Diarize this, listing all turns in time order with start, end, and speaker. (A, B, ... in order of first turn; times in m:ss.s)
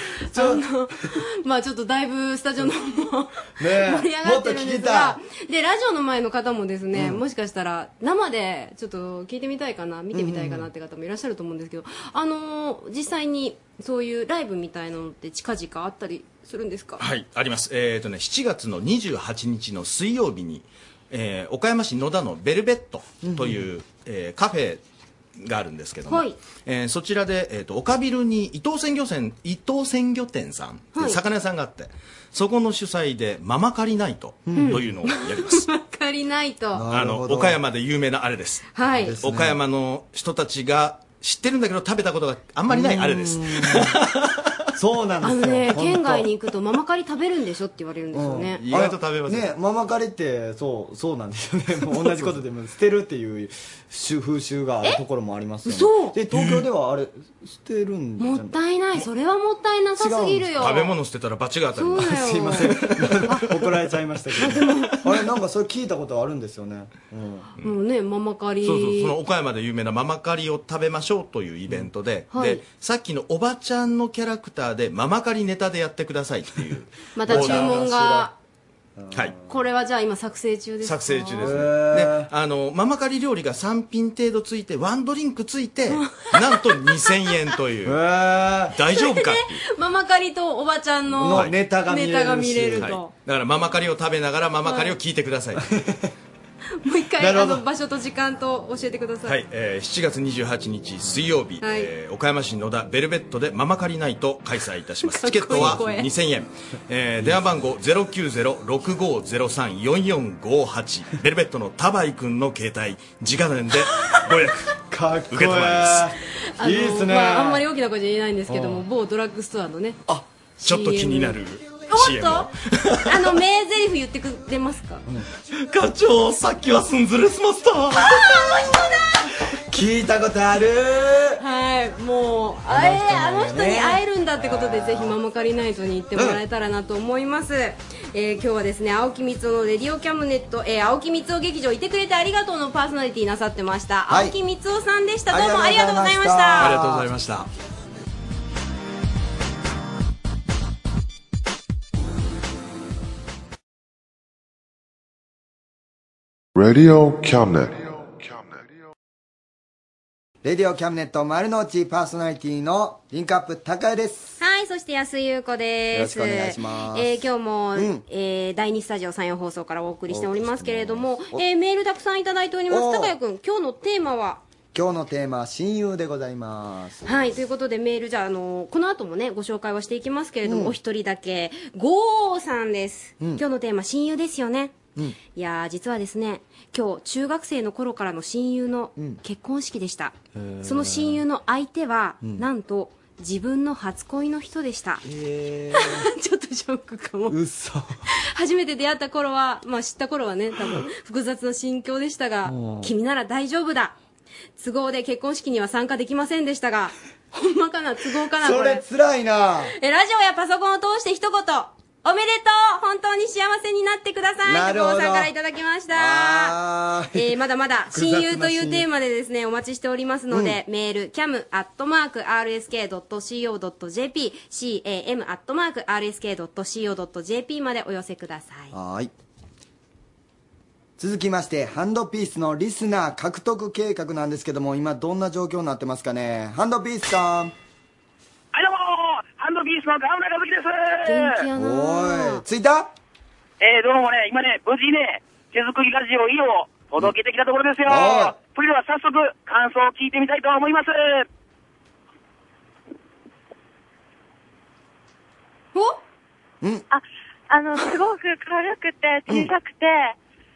0:00.3-0:17.0 A
0:00.3-0:00.6 B
0:03.6-0:05.2 B
0:06.9-0:07.2 B
0:10.1-0:10.7 B
0:17.0-0:24.8 C
0:23.2-0:23.6 B
0:25.4-0:35.6 C
0:26.1-0:26.4 A
0:30.9-0:31.2 A
0:34.4-0:34.8 B
0:34.5-0:36.9 A
0:36.7-0:37.6 B
0:36.9-0:44.4 C
0:38.7-0:39.2 A
0:38.9-0:39.6 B
0:42.7-0:44.0 B
0:44.7-0:46.3 B
0:45.2-0:48.6 A
0:48.1-0:58.6 B
0:48.6-0:49.5 C
0:55.6-0:56.2 A
0:56.3-0:56.6 C
0:58.2-1:01.0 A
1:00.0-1:00.6 B
1:00.6-1:02.2 C
1:01.7-1:03.5 A
1:02.1-1:07.5 B
1:04.4-1:05.0 A
1:07.6-1:09.2 A
1:08.6-1:18.1 C
1:12.3-1:12.6 A
1:17.1-1:18.3 A
1:17.2-1:18.3 B
1:19.0-1:19.6 B
1:19.5-1:21.7 A
1:20.8-1:28.0 C
1:21.4-1:22.3 B
1:25.9-1:27.3 A
1:27.8-1:28.7 B
1:28.7-1:29.6 C
1:28.8-1:33.1 A
1:31.1-1:33.0 B
1:31.3-1:31.6 C
1:32.8-1:35.6 C
1:34.6-1:35.0 A
1:35.8-1:36.0 B
1:36.8-1:39.4 A
1:37.2-1:37.6 B
1:39.2-1:54.7 C
1:41.6-1:41.9 A
1:45.1-1:46.0 A
1:54.9-1:57.6 B
1:55.3-1:56.1 C
1:56.6-2:00.0 A
1:58.5-1:58.8 B
2:00.6-2:02.5 A
2:00.6-2:03.3 C
2:03.0-2:05.0 A
2:05.6-2:08.4 C
2:09.7-2:11.4 B
2:11.4-2:26.7 A
2:12.7-2:15.2 B
2:16.2-2:16.4 B
2:24.1-2:24.4 B
2:25.3-2:27.1 B
2:26.6-2:27.5 C
2:36.6-2:38.7 D
2:40.4-2:44.4 B
2:44.4-2:54.4 A
2:45.9-2:47.2 B
2:47.7-2:48.0 B
2:50.1-2:51.4 B
2:52.7-2:53.1 B
2:54.7-2:57.1 B
2:57.0-3:04.8 A
3:00.4-3:00.8 B
3:05.3-3:15.0 A
3:10.3-3:11.2 B
3:12.2-3:12.5 B
3:15.0-3:16.0 B
3:15.7-3:17.4 A
3:17.3-3:18.0 B
3:18.3-3:23.9 A
3:22.4-3:22.9 B
3:24.6-3:28.8 A
3:28.3-3:29.7 B
3:29.8-3:36.6 A
3:34.4-3:35.3 B
3:35.9-3:37.3 B
3:37.1-3:48.7 A
3:37.9-3:38.9 B
3:40.3-3:40.6 B
3:48.7-3:49.1 B
3:51.0-3:57.5 B
3:58.5-4:01.4 E
4:01.0-4:02.4 A
4:01.5-4:02.9 B
4:03.6-4:11.2 E
4:07.9-4:08.3 B
4:16.9-4:20.2 F